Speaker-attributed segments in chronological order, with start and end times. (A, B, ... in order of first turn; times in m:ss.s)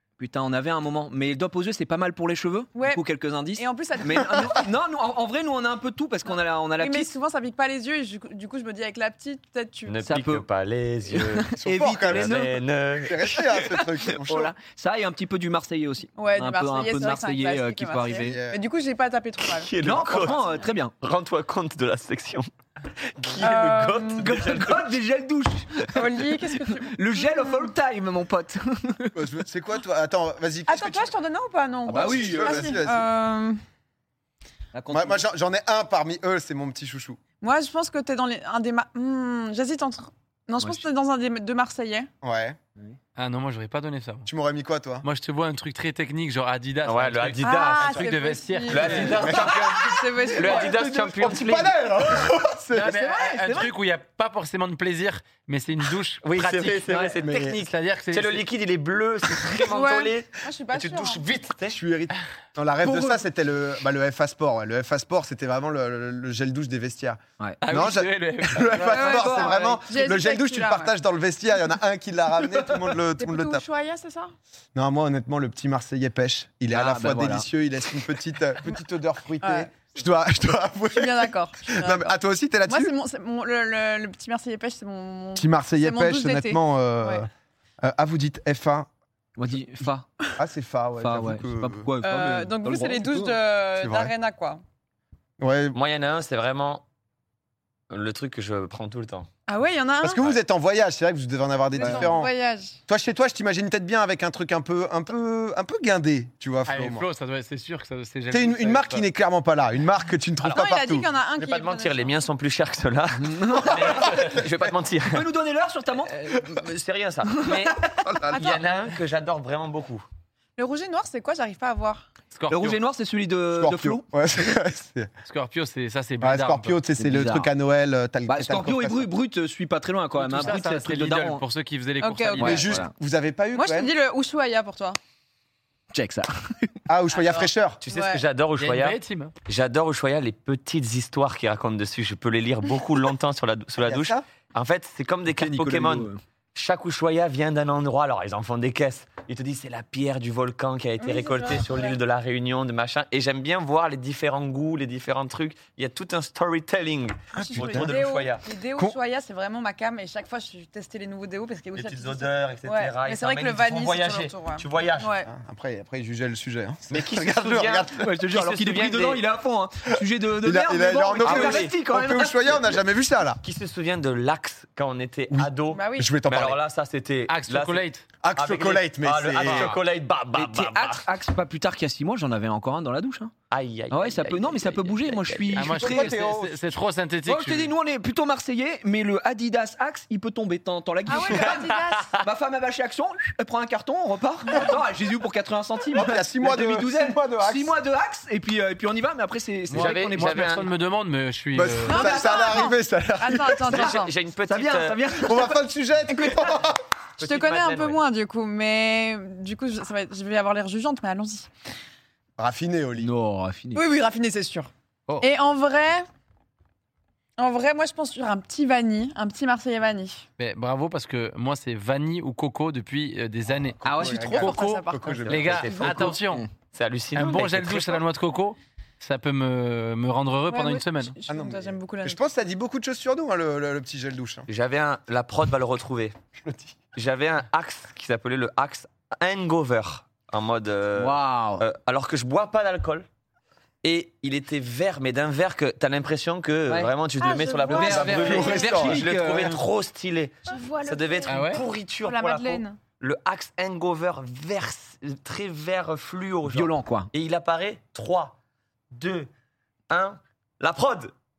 0:00.2-0:07.1 A
0:02.7-0:04.6 B
0:06.3-0:10.0 B
0:09.8-0:11.5 C
0:10.0-0:10.4 A
0:11.0-0:12.5 A
0:11.6-0:12.5 D
0:12.1-0:13.8 C
0:13.0-0:14.5 D
0:13.7-0:18.4 A
0:16.2-0:20.7 B
0:18.2-0:18.6 D
0:19.4-0:22.5 C
0:19.8-0:20.9 A
0:23.2-0:25.0 C
0:23.4-0:24.3 B
0:24.2-0:29.2 A
0:25.9-0:27.7 B
0:29.1-0:31.1 D
0:30.7-0:33.6 B
0:31.9-0:33.1 D
0:31.9-0:32.7 A
0:34.7-0:35.2 A
0:34.9-0:37.2 D
0:37.4-0:42.1 B
0:42.2-0:42.6 D
0:43.2-0:44.2 E
0:44.2-0:45.0 D
0:45.0-0:49.3 E
0:46.8-0:48.1 C
0:47.4-0:50.8 B
0:48.7-0:51.7 C
0:49.1-0:49.8 D
0:50.2-0:51.4 A
0:51.2-0:53.0 D
0:52.7-0:58.5 E
0:52.8-0:53.7 A
0:56.2-1:01.8 C
0:57.2-0:57.5 D
0:59.6-1:01.2 B
1:01.7-1:13.6 D
1:02.8-1:03.2 A
1:07.6-1:09.8 E
1:08.8-1:09.6 A
1:08.9-1:10.9 B
1:13.2-1:14.3 B
1:14.7-1:22.9 D
1:16.7-1:17.4 A
1:19.4-1:19.7 B
1:20.9-1:22.1 B
1:22.7-1:27.2 B
1:25.3-1:27.3 D
1:27.8-1:28.9 D
1:29.4-1:30.1 A
1:30.4-1:31.9 D
1:31.0-1:33.4 A
1:32.0-1:34.6 B
1:33.8-1:34.1 D
1:35.4-1:35.8 D
1:35.7-1:36.8 C
1:37.9-1:39.3 C
1:39.5-1:40.2 B
1:40.0-1:42.3 D
1:41.8-1:42.8 B
1:41.8-1:42.1 A
1:42.9-1:47.0 D
1:46.6-1:49.0 E
1:48.3-1:51.1 D
1:50.5-1:52.2 B
1:51.4-1:55.2 C
1:53.2-1:54.2 A
1:55.0-1:56.3 A
1:56.1-2:00.0 C
1:57.9-1:58.6 D
1:58.3-1:58.6 B
2:00.6-2:02.0 B
2:02.3-2:02.8 E
2:02.5-2:04.0 A
2:03.5-2:05.1 D
2:05.2-2:06.8 E
2:06.2-2:09.1 D
2:07.0-2:07.5 A
2:08.3-2:11.4 A
2:10.2-2:12.6 E
2:12.0-2:12.7 B
2:12.4-2:12.9 A
2:12.4-2:13.9 D
2:13.5-2:15.0 B
2:15.9-2:16.8 A
2:16.9-2:17.8 D
2:17.1-2:18.2 B
2:17.8-2:38.4 C
2:18.6-2:19.3 E
2:23.8-2:24.2 D
2:25.3-2:26.2 A
2:31.0-2:32.0 B
2:37.4-2:38.0 D
2:37.4-2:45.3 B
2:41.7-2:45.1 C
2:45.2-2:48.1 D
2:46.9-2:49.3 C
2:47.9-2:52.8 A
2:50.4-2:53.4 D
2:51.2-2:51.8 C
2:53.4-3:01.1 C
2:55.3-2:56.6 D
2:55.7-2:56.1 B
2:57.3-2:58.0 E
2:58.2-2:59.7 D
2:59.4-2:59.8 E
3:00.3-3:03.3 A
3:03.5-3:05.8 C
3:03.9-3:06.2 A
3:05.5-3:07.8 E
3:05.7-3:06.7 D
3:07.2-3:20.5 A
3:11.0-3:12.2 B
3:11.2-3:12.1 C
3:15.9-3:17.8 D
3:19.7-3:22.1 E
3:19.7-3:20.7 C
3:21.5-3:23.9 D
3:21.8-3:24.1 B
3:23.7-3:25.6 A
3:23.7-3:25.0 C
3:25.1-3:26.8 D
3:26.1-3:26.6 B
3:27.2-3:28.0 C
3:27.2-3:31.5 B
3:32.4-3:33.1 D
3:33.0-3:33.8 A
3:33.7-3:36.0 B
3:37.4-3:40.2 B
3:40.4-3:46.5 E
3:43.8-3:44.2 A
3:43.8-3:46.2 B
3:43.9-3:45.8 D
3:45.4-3:48.0 C
3:46.2-3:46.4 A
3:47.1-3:51.1 E
3:50.5-3:52.2 B
3:51.3-3:54.5 D
3:54.5-3:56.1 C
3:56.4-3:56.8 D
3:56.9-4:03.1 C
4:01.0-4:01.6 A
4:03.8-4:18.4 C
4:07.2-4:08.8 B
4:07.7-4:09.6 A
4:07.9-4:09.0 D
4:10.5-4:12.8 B
4:11.3-4:11.6 E
4:16.4-4:17.1 A
4:18.9-4:19.3 C
4:19.9-4:21.1 C